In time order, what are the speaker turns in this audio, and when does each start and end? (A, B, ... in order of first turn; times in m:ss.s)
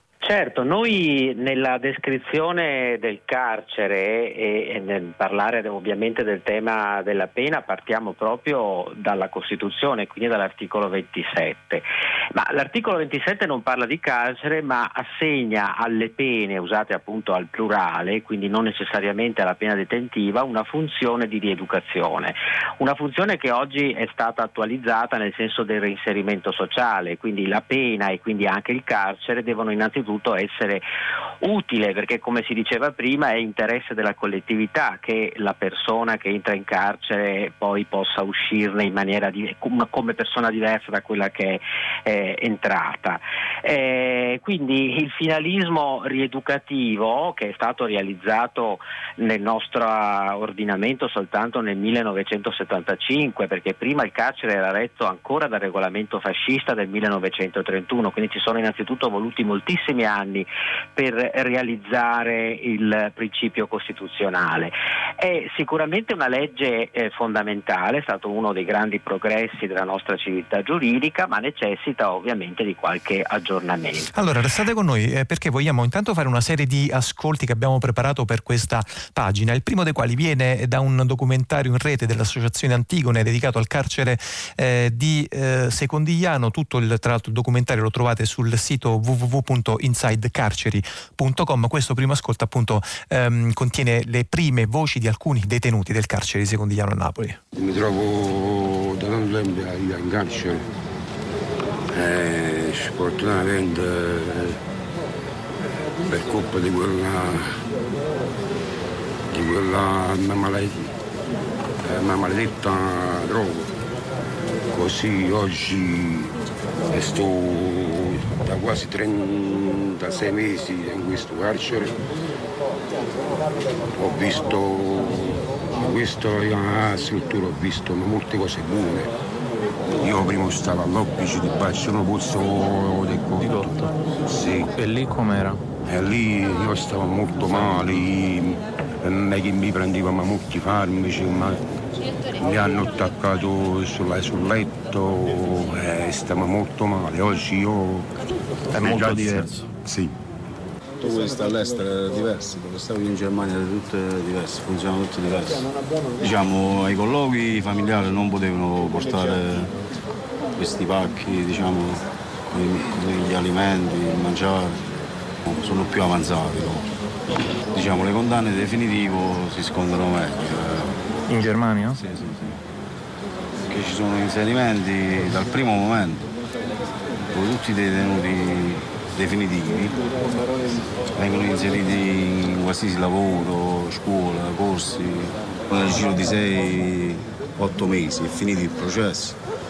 0:00.2-0:11.8 A
0:12.4-0:30.8 A
0:31.4-1:14.1 A
1:14.1-1:37.4 B
1:37.6-1:40.6 C
1:41.9-1:44.6 C
1:46.1-1:47.6 C
1:49.3-1:50.9 C
1:51.8-1:53.7 C
1:54.7-1:56.3 C
1:56.9-2:02.0 C
2:04.0-2:09.1 C
2:10.0-2:13.7 C
2:13.4-2:13.9 D
2:14.3-2:14.7 C
2:14.7-2:15.6 D
2:15.9-2:21.6 C
2:22.4-2:28.1 C
2:28.7-2:29.7 D
2:28.8-2:30.1 C
2:31.0-2:35.6 E
2:36.2-2:39.7 E
2:40.6-2:44.9 E
2:45.5-2:46.8 E
2:47.7-2:51.0 E
2:51.3-2:52.0 D
2:52.0-2:52.6 E
2:53.7-2:56.3 E
2:57.3-3:00.0 E
3:01.2-3:09.4 E